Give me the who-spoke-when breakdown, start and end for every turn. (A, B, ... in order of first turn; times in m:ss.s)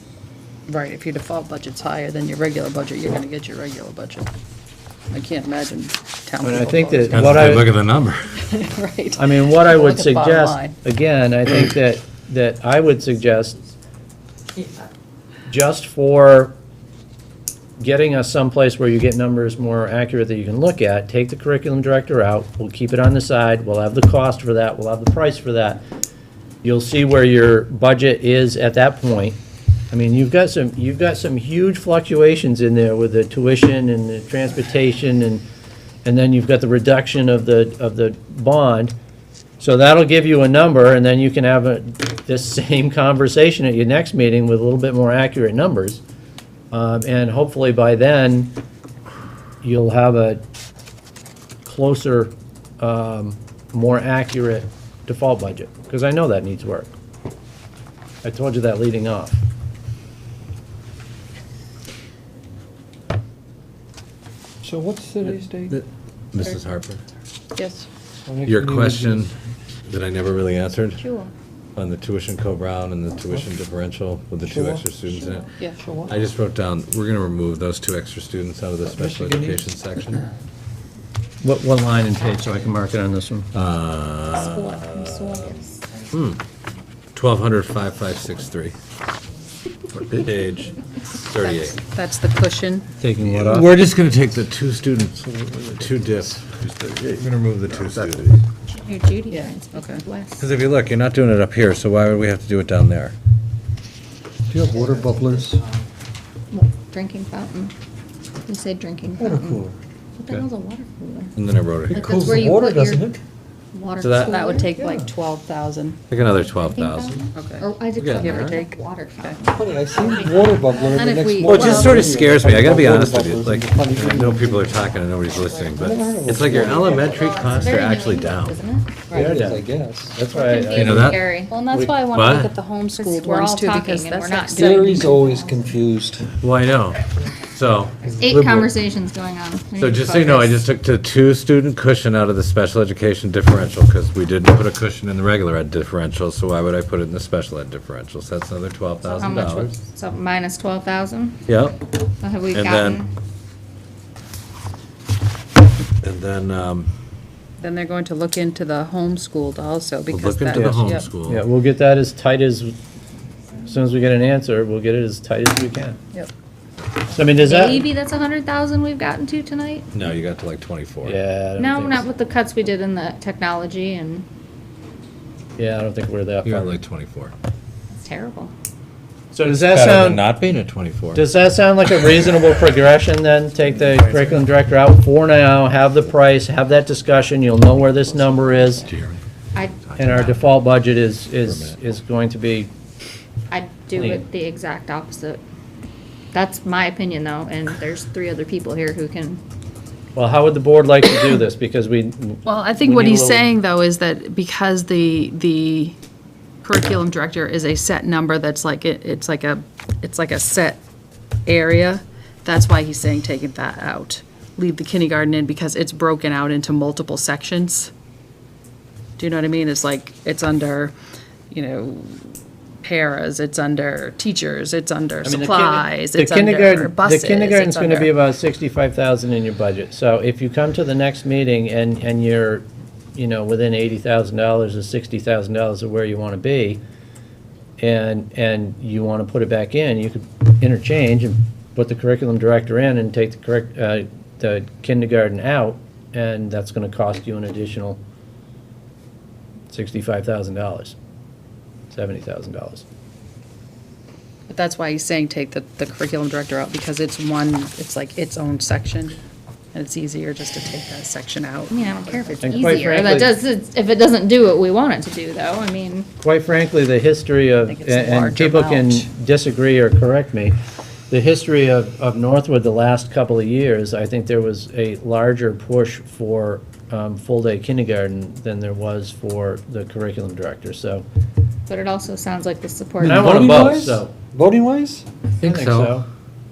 0:00.7-0:04.3 A
0:05.1-0:07.5 A
0:06.4-0:07.7 B
0:07.1-0:08.3 C
0:08.4-0:10.8 A
0:09.2-0:13.6 B
0:15.5-0:16.5 B
0:17.8-0:25.8 B
0:26.6-0:29.4 B
0:29.9-0:35.4 B
0:36.0-0:38.9 B
0:39.6-0:46.0 B
0:46.7-0:48.6 B
0:49.6-0:50.4 B
0:51.6-0:56.9 B
0:58.2-0:59.4 B
1:04.6-1:05.8 D
1:05.7-1:07.0 C
1:07.6-1:07.9 A
1:08.3-1:09.3 D
1:08.4-1:09.3 C
1:09.9-1:11.0 C
1:11.0-1:11.3 E
1:11.8-1:15.5 C
1:14.4-1:14.9 D
1:15.8-1:16.2 D
1:16.1-1:20.2 C
1:18.8-1:19.6 D
1:21.4-1:23.5 B
1:23.5-1:26.4 C
1:24.3-1:25.7 E
1:27.1-1:28.8 C
1:29.9-1:30.3 B
1:30.1-1:31.8 C
1:31.4-1:32.8 A
1:33.0-1:33.8 B
1:33.2-1:38.4 C
1:37.9-1:38.1 B
1:38.7-1:40.4 E
1:39.3-1:40.0 A
1:40.4-1:43.1 C
1:44.5-1:45.6 D
1:46.5-1:47.7 E
1:48.4-1:49.6 E
1:49.2-1:49.7 D
1:50.2-1:51.3 E
1:51.4-1:52.4 C
1:51.9-1:53.2 D
1:51.9-1:53.0 E
1:53.7-1:54.8 E
1:54.0-1:54.4 C
1:54.1-1:56.0 A
1:54.7-1:55.1 D
1:56.1-1:57.2 C
1:56.5-2:00.9 E
1:57.3-1:59.4 A
1:58.0-1:58.6 C
1:59.4-2:04.7 D
2:00.9-2:02.2 A
2:01.4-2:08.6 C
2:05.7-2:07.6 D
2:06.8-2:09.1 E
2:09.1-2:10.2 D
2:09.1-2:11.9 B
2:10.3-2:11.5 E
2:10.7-2:11.3 C
2:11.5-2:15.2 A
2:12.1-2:12.5 C
2:13.0-2:15.6 E
2:14.5-2:16.4 D
2:16.4-2:18.6 C
2:18.2-2:20.6 E
2:19.8-2:29.8 C
2:29.0-2:31.4 E
2:31.5-2:32.0 C
2:32.2-2:33.1 E
2:32.5-2:33.0 C
2:36.0-2:36.9 C
2:37.6-2:41.1 A
2:40.1-2:41.5 C
2:40.5-2:42.7 B
2:43.6-2:46.0 B
2:47.1-2:47.8 B
2:47.4-2:49.9 E
2:49.9-2:51.2 C
2:51.0-2:52.0 B
2:51.6-2:54.2 E
2:55.6-2:56.8 B
2:56.4-2:57.3 C
2:57.9-2:58.5 E
2:59.3-3:00.2 B
2:59.4-3:01.3 C
3:01.1-3:08.9 B
3:04.0-3:04.3 C
3:08.8-3:09.2 C
3:09.5-3:10.4 E
3:09.8-3:10.2 C
3:10.0-3:12.7 B
3:11.4-3:11.8 C
3:13.5-3:15.4 E
3:14.0-3:14.2 B
3:16.3-3:19.4 E
3:20.1-3:23.5 B
3:22.4-3:26.0 A
3:26.6-3:30.8 A
3:31.4-3:37.9 A
3:39.2-3:40.9 A
3:41.5-3:48.1 A
3:45.2-3:56.8 B
3:57.8-4:08.0 B
4:09.7-4:11.0 B
4:11.9-4:12.8 B
4:14.5-4:19.2 A
4:19.7-4:22.8 A
4:21.7-4:26.1 E
4:22.4-4:23.3 B
4:26.2-4:30.6 B
4:27.6-4:29.1 A
4:31.1-4:41.0 B
4:41.7-4:43.7 E
4:43.0-4:45.0 D
4:43.0-4:44.1 B
4:45.4-4:46.0 C
4:45.4-4:46.0 B